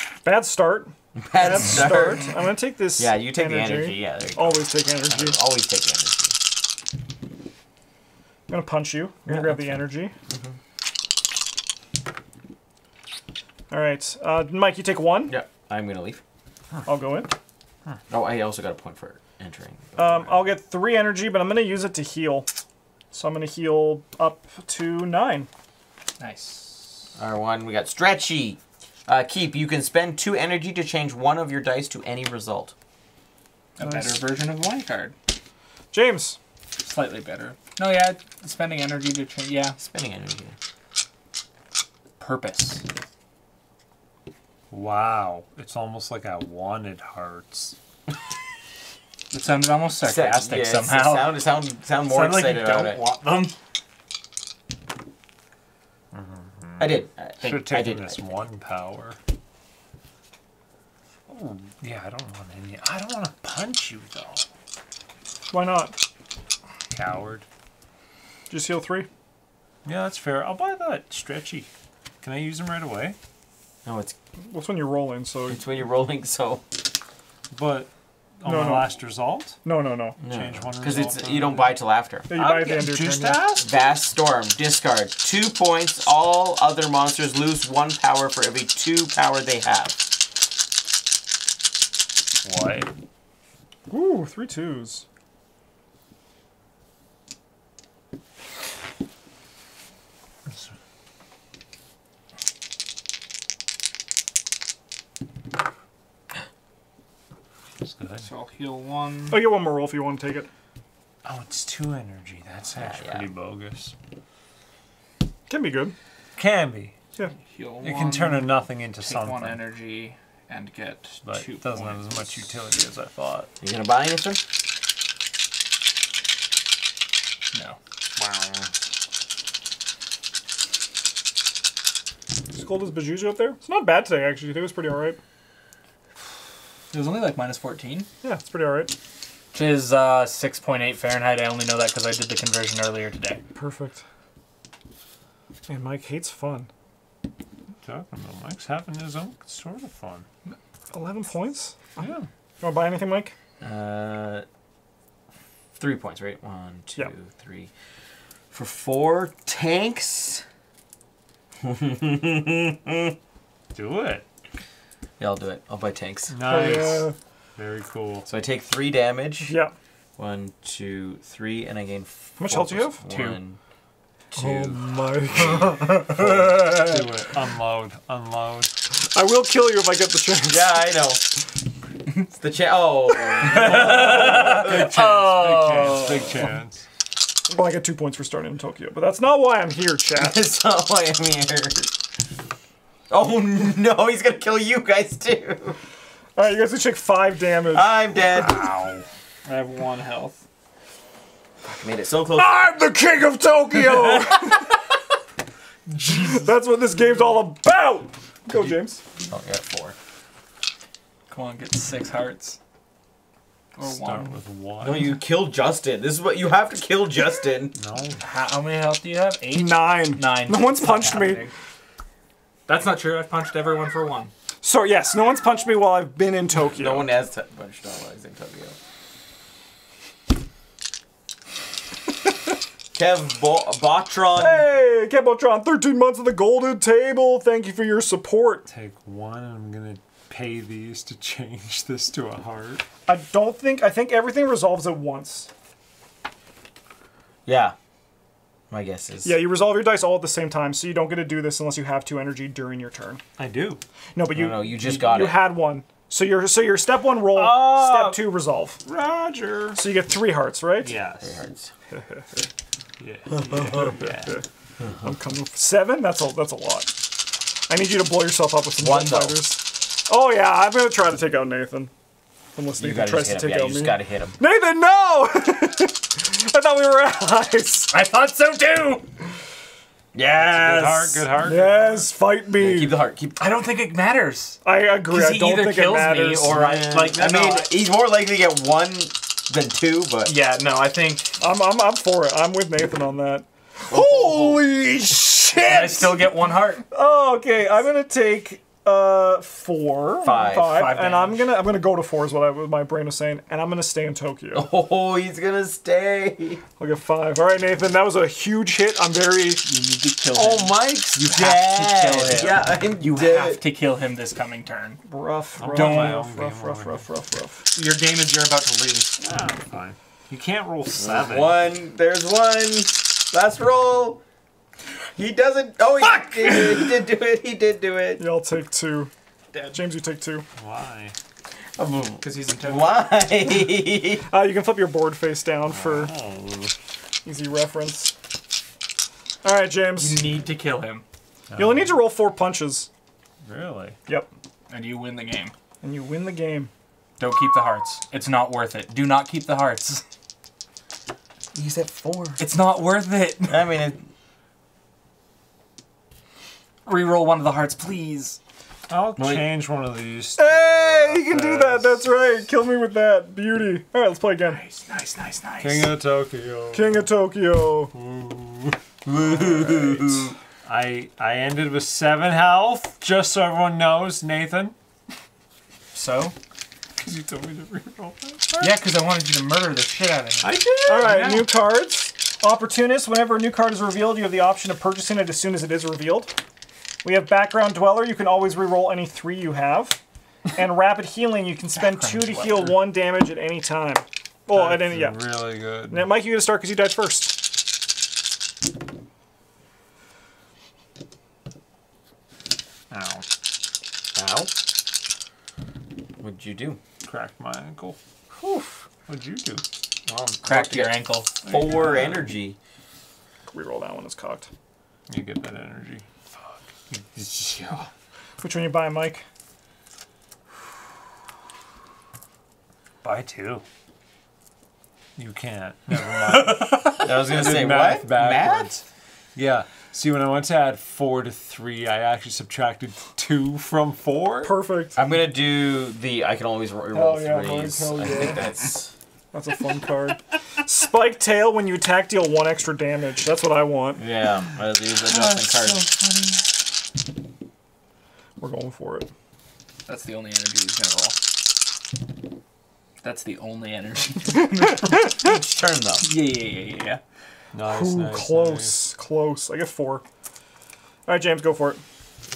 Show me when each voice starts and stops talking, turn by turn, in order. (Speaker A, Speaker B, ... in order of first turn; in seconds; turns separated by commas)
Speaker A: 0.2-5.4, Speaker B: 1.2-2.3, Speaker B: 3.0-6.3, Speaker A: 8.5-10.1, Speaker B: 9.3-9.7, Speaker B: 10.3-10.5, Speaker A: 13.7-15.4, Speaker B: 15.3-16.2, Speaker A: 16.9-17.3, Speaker B: 18.1-20.4, Speaker A: 20.0-22.5, Speaker A: 23.1-25.5, Speaker C: 26.2-27.1, Speaker B: 27.2-32.7, Speaker C: 33.8-35.1, Speaker A: 33.8-34.2, Speaker A: 35.9-36.4, Speaker C: 36.8-39.8, Speaker B: 39.8-40.5, Speaker C: 42.2-42.8, Speaker D: 44.7-47.8, Speaker C: 49.3-51.4, Speaker B: 50.0-53.0, Speaker C: 52.0-53.5, Speaker D: 56.1-59.2, Speaker B: 56.8-58.2, Speaker D: 61.3-64.5, Speaker A: 65.5-66.0, Speaker D: 66.9-67.5, Speaker A: 68.5-69.1, Speaker D: 69.8-71.7, Speaker D: 72.2-73.2, Speaker B: 73.8-74.2, Speaker A: 74.5-75.6, Speaker B: 75.5-76.7, Speaker D: 77.5-79.6, Speaker A: 78.4-79.0, Speaker A: 79.6-80.2, Speaker D: 80.2-81.7, Speaker B: 80.2-82.3, Speaker C: 81.1-81.6, Speaker A: 82.3-83.5, Speaker D: 82.3-83.7, Speaker B: 83.6-90.1, Speaker D: 92.4-92.9, Speaker A: 93.9-95.0, Speaker D: 100.5-100.7, Speaker D: 107.8-108.3, Speaker C: 108.2-109.4, Speaker A: 109.3-110.5, Speaker D: 111.2-113.9, Speaker B: 112.8-113.3, Speaker A: 115.5-116.0, Speaker D: 116.4-117.0, Speaker C: 117.3-122.2, Speaker D: 117.8-119.6, Speaker D: 121.2-123.5, Speaker B: 123.6-124.4, Speaker C: 127.5-127.8, Speaker D: 128.2-128.7, Speaker A: 132.5-135.2, Speaker C: 136.9-138.1, Speaker A: 138.2-138.9, Speaker C: 139.5-143.4, Speaker A: 143.6-144.0, Speaker A: 145.7-146.7, Speaker D: 147.8-150.3, Speaker A: 150.9-152.0, Speaker D: 152.0-152.3, Speaker A: 152.6-153.3, Speaker B: 153.6-154.5, Speaker B: 155.8-157.7, Speaker B: 158.5-160.4, Speaker B: 161.6-163.2, Speaker D: 163.7-164.2, Speaker B: 165.2-166.4, Speaker D: 166.3-168.3, Speaker A: 166.4-167.2, Speaker B: 168.3-169.5, Speaker A: 169.4-169.8, Speaker B: 170.2-173.6, Speaker A: 172.4-173.0, Speaker C: 173.1-173.4, Speaker B: 174.3-176.6, Speaker A: 174.3-176.3, Speaker D: 175.4-178.7, Speaker A: 179.1-180.8, Speaker B: 180.5-181.2, Speaker B: 182.3-184.9, Speaker C: 183.5-186.5, Speaker D: 183.5-186.8, Speaker A: 187.5-190.4, Speaker B: 190.2-191.9, Speaker B: 193.1-195.8, Speaker A: 196.4-197.9, Speaker B: 197.7-198.7, Speaker D: 198.5-199.0, Speaker C: 199.4-200.4, Speaker B: 201.7-202.6, Speaker A: 202.4-204.7, Speaker D: 205.9-206.6, Speaker A: 206.1-209.0, Speaker B: 209.2-209.9, Speaker C: 211.3-212.6, Speaker C: 213.8-214.4, Speaker D: 213.8-215.2, Speaker B: 214.8-217.8, Speaker D: 217.8-218.2, Speaker C: 218.2-221.5, Speaker A: 219.5-221.5, Speaker C: 222.7-224.3, Speaker A: 224.6-227.1, Speaker B: 226.6-228.8, Speaker B: 232.9-234.7, Speaker A: 234.3-238.7, Speaker D: 238.7-242.8, Speaker A: 243.1-245.5, Speaker B: 247.5-247.8, Speaker B: 248.7-249.4, Speaker A: 249.2-253.2, Speaker D: 253.4-253.8, Speaker A: 254.2-258.8, Speaker B: 254.3-255.5, Speaker D: 257.2-258.3, Speaker D: 258.8-259.8, Speaker A: 259.8-261.0, Speaker D: 260.8-261.4, Speaker B: 261.2-261.7, Speaker A: 261.9-262.5, Speaker D: 263.0-264.4, Speaker A: 263.3-267.1, Speaker A: 267.7-271.9, Speaker B: 268.8-269.5, Speaker A: 272.6-277.9, Speaker B: 272.8-274.4, Speaker C: 277.9-279.1, Speaker B: 280.1-281.3, Speaker D: 280.4-282.1, Speaker A: 281.4-283.0, Speaker B: 282.6-283.5, Speaker C: 283.4-287.7, Speaker A: 284.6-286.5, Speaker B: 286.5-290.3, Speaker C: 290.2-291.4, Speaker A: 291.4-296.3, Speaker B: 293.9-294.6, Speaker C: 295.7-296.9, Speaker A: 296.9-304.7, Speaker B: 300.2-300.8, Speaker C: 300.5-301.6, Speaker B: 304.5-306.6, Speaker A: 306.8-309.6, Speaker C: 309.6-315.0, Speaker B: 310.4-313.6, Speaker A: 315.1-317.7, Speaker D: 315.6-317.0, Speaker C: 315.7-316.2, Speaker C: 317.7-319.2, Speaker D: 319.2-321.6, Speaker B: 321.0-324.2, Speaker B: 325.2-328.2, Speaker A: 328.2-329.1, Speaker A: 329.6-330.5, Speaker D: 330.6-331.1, Speaker B: 331.8-334.2, Speaker C: 332.2-333.1, Speaker A: 334.3-336.1, Speaker D: 335.7-336.7, Speaker A: 337.2-338.1, Speaker A: 339.4-340.2, Speaker C: 340.0-341.0, Speaker D: 341.5-342.0, Speaker A: 341.5-342.9, Speaker D: 343.4-344.0, Speaker C: 344.7-345.5, Speaker A: 345.8-346.7, Speaker C: 347.2-350.0, Speaker B: 351.5-352.4, Speaker C: 352.4-353.8, Speaker B: 353.5-354.0, Speaker C: 356.9-358.4, Speaker D: 358.9-362.0, Speaker B: 359.2-359.4, Speaker A: 360.4-364.6, Speaker C: 364.4-365.9, Speaker D: 365.6-367.1, Speaker A: 366.7-367.9, Speaker D: 367.9-368.8, Speaker B: 369.1-370.4, Speaker D: 370.7-374.8, Speaker C: 375.9-376.4, Speaker D: 377.0-378.7, Speaker C: 378.6-381.5, Speaker D: 380.4-381.4, Speaker A: 380.9-386.4, Speaker A: 387.0-390.0, Speaker A: 390.5-397.4, Speaker C: 391.8-392.9, Speaker D: 394.5-396.2, Speaker D: 402.9-403.2, Speaker B: 404.1-404.5, Speaker B: 406.2-406.8, Speaker D: 407.0-408.0, Speaker D: 409.1-409.6, Speaker B: 410.1-412.6, Speaker C: 410.4-412.2, Speaker A: 413.5-414.5, Speaker D: 415.1-416.1, Speaker D: 416.9-417.9, Speaker A: 418.4-419.2, Speaker D: 423.0-423.6, Speaker D: 425.2-428.8, Speaker B: 427.0-428.8, Speaker D: 429.4-434.5, Speaker A: 434.4-435.0, Speaker B: 435.0-438.9, Speaker A: 436.9-438.4, Speaker A: 439.3-444.0, Speaker B: 444.0-445.8, Speaker D: 445.0-446.4, Speaker A: 448.4-449.1, Speaker C: 449.9-451.2, Speaker C: 453.0-455.3, Speaker B: 455.1-456.1, Speaker C: 456.0-457.0, Speaker D: 457.5-458.8, Speaker A: 457.6-460.0, Speaker A: 461.1-461.8